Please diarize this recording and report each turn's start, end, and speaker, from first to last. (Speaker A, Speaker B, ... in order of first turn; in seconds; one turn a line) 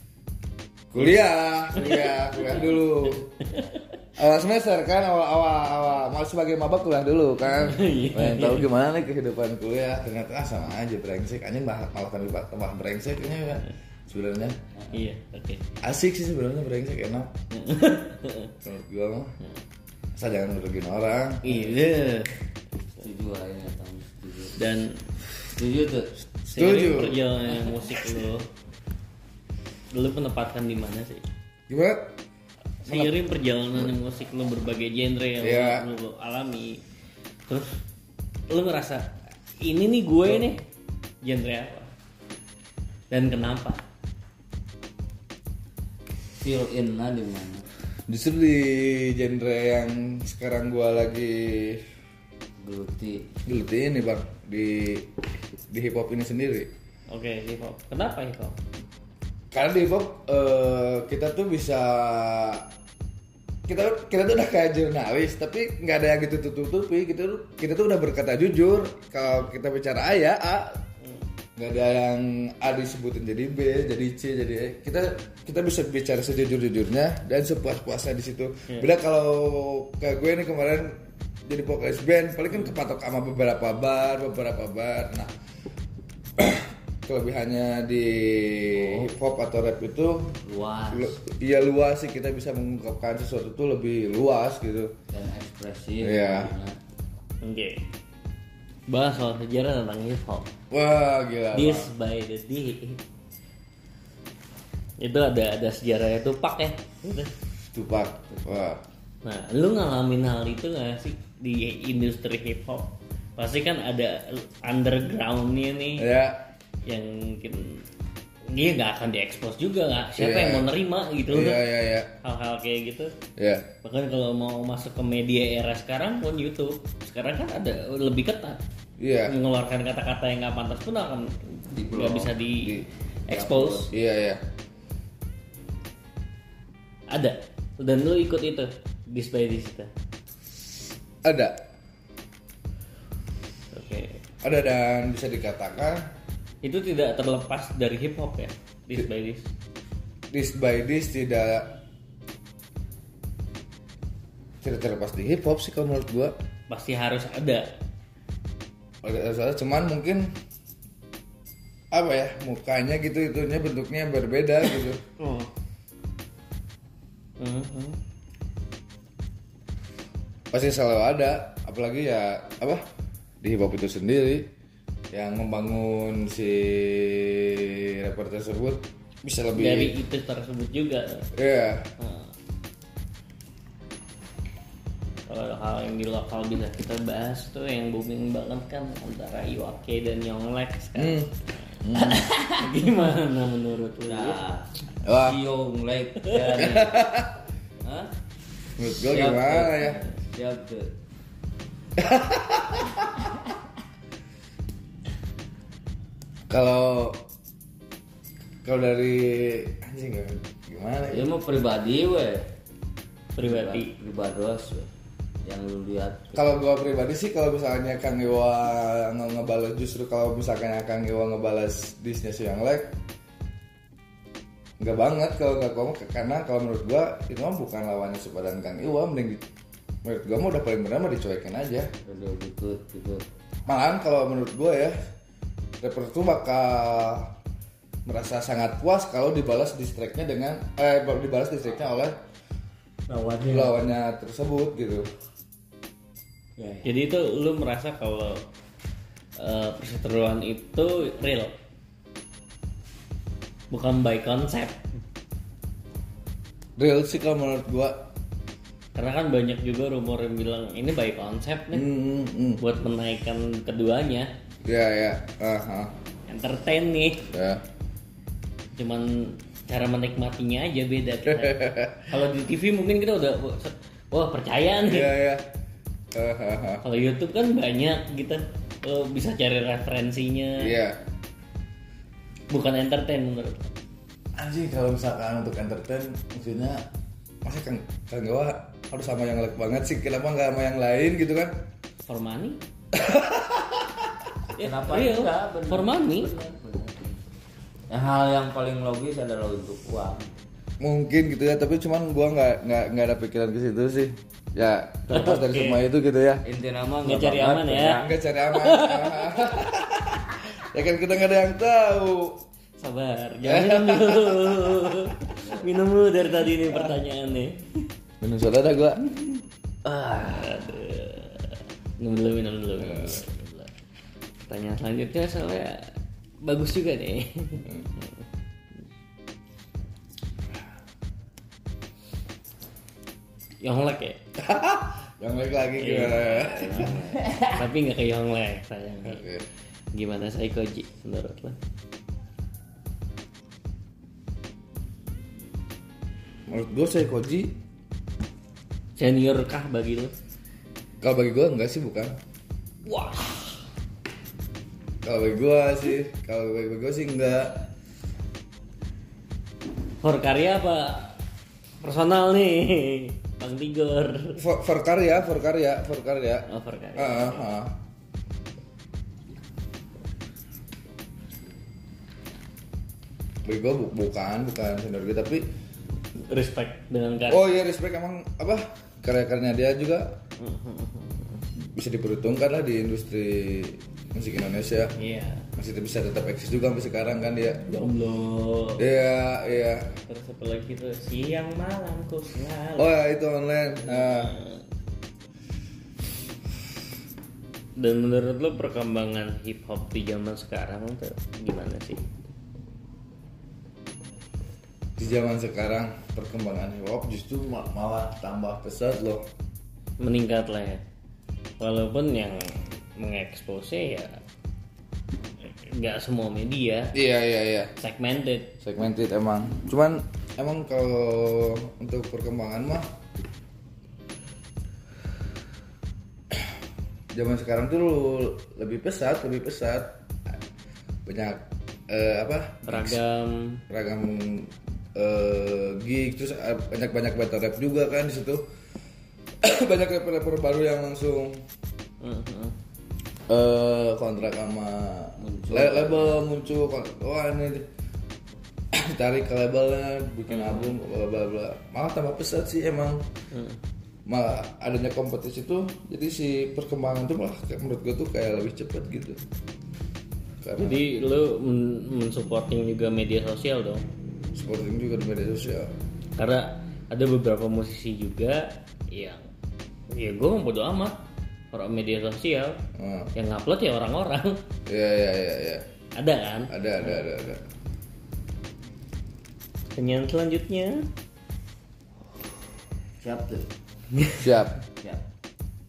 Speaker A: 0.9-3.3
Speaker B: 1.8-2.6
Speaker B: 3.5-3.8
Speaker A: 4.2-14.6
Speaker B: 7.5-8.7
Speaker B: 14.9-15.6
Speaker A: 15.8-17.3
Speaker B: 17.5-18.5
Speaker A: 18.6-19.3
Speaker A: 20.1-21.6
Speaker B: 21.4-22.4
Speaker C: 23.0-24.6
Speaker B: 24.6-25.0
Speaker C: 25.5-26.1
Speaker A: 26.5-27.3
Speaker B: 26.5-28.5
Speaker B: 29.9-31.3
Speaker A: 31.7-32.1
Speaker B: 32.8-36.8
Speaker A: 32.9-33.1
Speaker A: 35.4-35.9
Speaker B: 37.5-37.8
Speaker B: 38.5-40.7
Speaker B: 41.2-41.9
Speaker B: 43.1-43.8
Speaker C: 46.4-47.6
Speaker A: 48.1-51.8
Speaker C: 52.6-53.3
Speaker A: 53.5-55.1
Speaker A: 55.7-56.7
Speaker B: 57.1-58.6
Speaker A: 59.5-62.7
Speaker A: 63.7-70.8
Speaker A: 71.6-85.3
Speaker A: 86.4-90.3
Speaker C: 88.8-89.1
Speaker C: 90.5-91.2
Speaker A: 90.9-94.9
Speaker C: 95.1-96.8
Speaker A: 96.0-96.5
Speaker B: 97.4-97.8
Speaker B: 98.9-100.5
Speaker A: 100.7-101.9
Speaker B: 101.5-103.0
Speaker B: 105.0-107.3
Speaker A: 107.7-108.8
Speaker B: 109.2-116.1
Speaker A: 116.0-116.5
Speaker B: 116.9-117.8
Speaker B: 118.5-121.7
Speaker A: 120.2-120.7
Speaker A: 121.3-122.1
Speaker B: 122.2-123.1
Speaker A: 123.4-123.7
Speaker B: 123.8-128.6
Speaker A: 129.0-129.4
Speaker B: 129.2-133.9
Speaker C: 131.7-132.3
Speaker A: 132.6-132.9
Speaker C: 133.3-133.9
Speaker A: 133.9-134.4
Speaker B: 137.1-139.9
Speaker A: 141.2-141.6
Speaker B: 143.7-144.2
Speaker A: 144.4-146.1
Speaker B: 146.6-149.5
Speaker A: 150.3-151.8
Speaker A: 154.6-156.3
Speaker B: 156.7-157.7
Speaker A: 159.0-160.3
Speaker A: 161.9-165.0
Speaker B: 165.2-165.5
Speaker B: 167.4-168.0
Speaker A: 170.5-172.8
Speaker A: 173.4-174.5
Speaker A: 175.1-179.9
Speaker B: 179.5-181.3
Speaker A: 181.3-181.9
Speaker B: 182.0-182.3
Speaker B: 185.3-194.4
Speaker A: 191.0-191.3
Speaker A: 191.8-192.3
Speaker C: 194.1-197.2
Speaker A: 195.0-195.4
Speaker B: 196.2-196.6
Speaker A: 196.5-197.4
Speaker C: 197.8-198.1
Speaker A: 198.8-200.0
Speaker C: 199.1-200.9
Speaker A: 202.0-203.3
Speaker A: 206.5-207.2
Speaker A: 208.6-211.3
Speaker C: 211.1-212.5
Speaker B: 213.4-213.9
Speaker C: 213.4-214.9
Speaker C: 215.4-216.5
Speaker A: 216.3-222.9
Speaker A: 224.8-229.4
Speaker A: 230.0-231.9
Speaker C: 232.1-233.2
Speaker A: 233.7-235.0
Speaker A: 235.8-237.3
Speaker A: 238.1-242.2
Speaker C: 243.1-243.8
Speaker A: 243.5-245.1
Speaker C: 246.6-246.9
Speaker B: 246.8-248.4
Speaker B: 249.4-251.6
Speaker B: 253.7-254.8
Speaker A: 256.8-258.1
Speaker B: 258.9-261.9
Speaker A: 261.7-262.6
Speaker B: 262.6-264.3
Speaker A: 264.6-265.9
Speaker B: 266.3-267.3
Speaker A: 267.3-267.6
Speaker B: 268.8-275.1
Speaker A: 271.3-272.1
Speaker A: 274.9-275.4
Speaker A: 276.1-276.8
Speaker B: 276.8-280.8
Speaker A: 280.6-281.0
Speaker B: 282.5-283.7
Speaker A: 284.4-286.9
Speaker A: 287.4-291.5
Speaker B: 292.1-292.6
Speaker A: 292.9-294.2
Speaker B: 294.5-296.3
Speaker C: 294.6-297.2
Speaker C: 297.9-300.4
Speaker A: 300.8-306.4
Speaker B: 305.1-305.8
Speaker C: 306.4-308.1
Speaker B: 307.0-308.0
Speaker A: 307.9-312.4
Speaker B: 308.5-309.4
Speaker B: 312.8-317.9
Speaker A: 313.4-315.1
Speaker C: 315.4-315.8
Speaker A: 316.6-316.9
Speaker A: 318.2-319.4
Speaker B: 319.9-323.7
Speaker A: 322.8-323.2
Speaker B: 324.4-325.9
Speaker B: 326.4-327.7
Speaker B: 333.6-334.2
Speaker A: 334.4-337.0
Speaker B: 335.8-339.2
Speaker C: 336.9-337.5
Speaker A: 339.0-339.4
Speaker B: 339.9-341.6
Speaker A: 346.5-347.6
Speaker B: 349.0-350.1
Speaker A: 351.0-352.2
Speaker B: 352.9-353.6
Speaker A: 355.0-357.6
Speaker B: 360.0-361.2
Speaker B: 361.8-364.4
Speaker A: 364.4-367.8
Speaker B: 366.5-367.5
Speaker A: 373.4-375.5
Speaker B: 376.3-377.5
Speaker A: 377.3-380.2
Speaker B: 380.4-381.4
Speaker A: 381.7-384.9
Speaker B: 385.0-385.5
Speaker A: 385.6-387.6
Speaker B: 387.7-388.9
Speaker A: 388.8-390.0
Speaker B: 390.1-392.9
Speaker A: 392.8-394.4
Speaker B: 393.9-394.6
Speaker B: 397.8-402.0
Speaker A: 405.0-409.3
Speaker B: 410.0-410.8
Speaker B: 411.6-414.2
Speaker B: 415.5-416.9
Speaker A: 416.9-417.7
Speaker B: 417.8-418.6
Speaker A: 418.6-422.9
Speaker A: 427.1-430.4
Speaker A: 431.1-433.0
Speaker B: 432.7-433.6
Speaker A: 433.7-438.4
Speaker A: 439.4-441.4
Speaker B: 442.0-442.6
Speaker A: 443.3-447.7
Speaker C: 445.2-446.2
Speaker A: 448.7-453.0
Speaker B: 450.3-450.7
Speaker B: 453.3-453.6
Speaker A: 454.1-459.2
Speaker A: 460.4-460.8
Speaker B: 460.6-463.9
Speaker A: 464.3-465.7
Speaker B: 466.2-469.2
Speaker B: 469.9-472.6
Speaker A: 472.8-473.1
Speaker B: 473.1-474.4
Speaker A: 474.7-475.6
Speaker B: 476.0-477.0
Speaker A: 476.5-477.4
Speaker B: 479.7-480.9
Speaker C: 483.0-483.5
Speaker B: 484.0-484.2
Speaker A: 484.2-484.6